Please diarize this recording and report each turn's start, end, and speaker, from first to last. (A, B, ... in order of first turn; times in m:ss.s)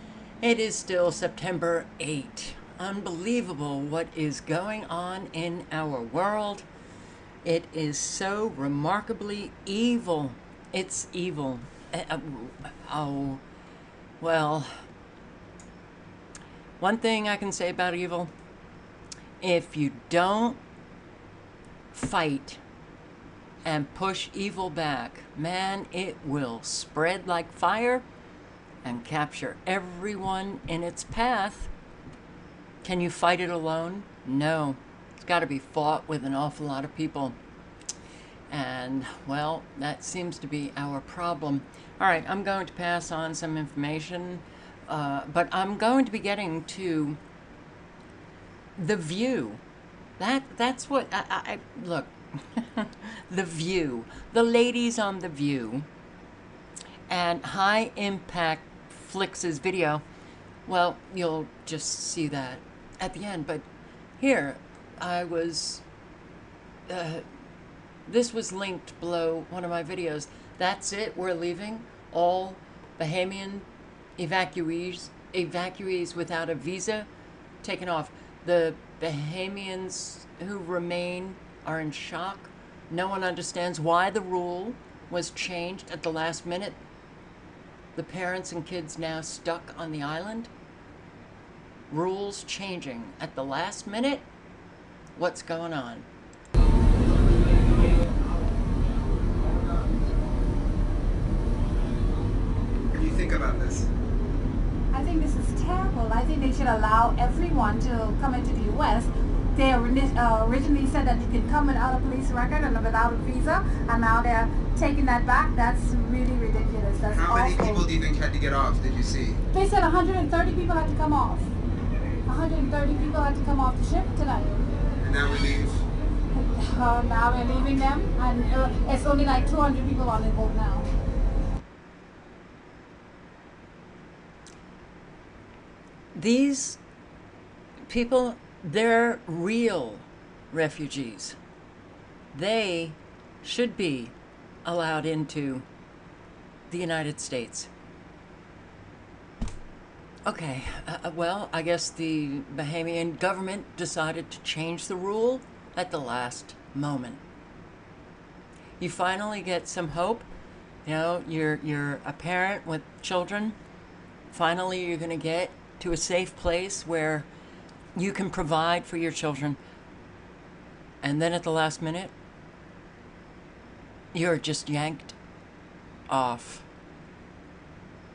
0:00.4-0:06.6 A
0:07.4-0:13.4 A
0:14.2-0:14.7 A
0:16.8-0:18.3 A
0:19.4-0:20.6 A
0:21.9-0:22.6 A
0:23.6-0:28.0 A
0:28.8-0:31.7 A
0:32.8-0:37.4 A
0:38.5-0:47.2 A
0:48.8-0:49.6 A
0:50.2-0:55.9 A
0:57.1-1:00.0 A
1:00.7-1:03.6 A
1:04.2-1:05.8 A
1:06.9-1:07.2 A
1:08.1-1:13.7 A
1:14.2-1:17.1 A
1:17.6-1:26.8 A
1:28.0-1:30.5 A
1:31.9-1:34.3 A
1:35.2-1:36.1 A
1:42.9-1:43.9 B
1:44.9-1:57.9 C
1:57.1-1:59.4 B
1:59.5-2:01.5 C
2:02.2-2:04.5 C
2:05.0-2:05.8 B
2:06.3-2:10.9 C
2:16.1-2:16.8 A
2:17.9-2:21.4 A
2:22.3-2:25.7 A
2:26.7-2:27.7 A
2:30.2-2:37.2 A
2:38.8-2:40.3 A
2:40.8-2:43.6 A
2:44.3-2:47.3 A
2:47.9-2:49.6 A
2:51.0-2:52.1 A
2:54.1-2:55.1 A
2:56.1-2:56.7 A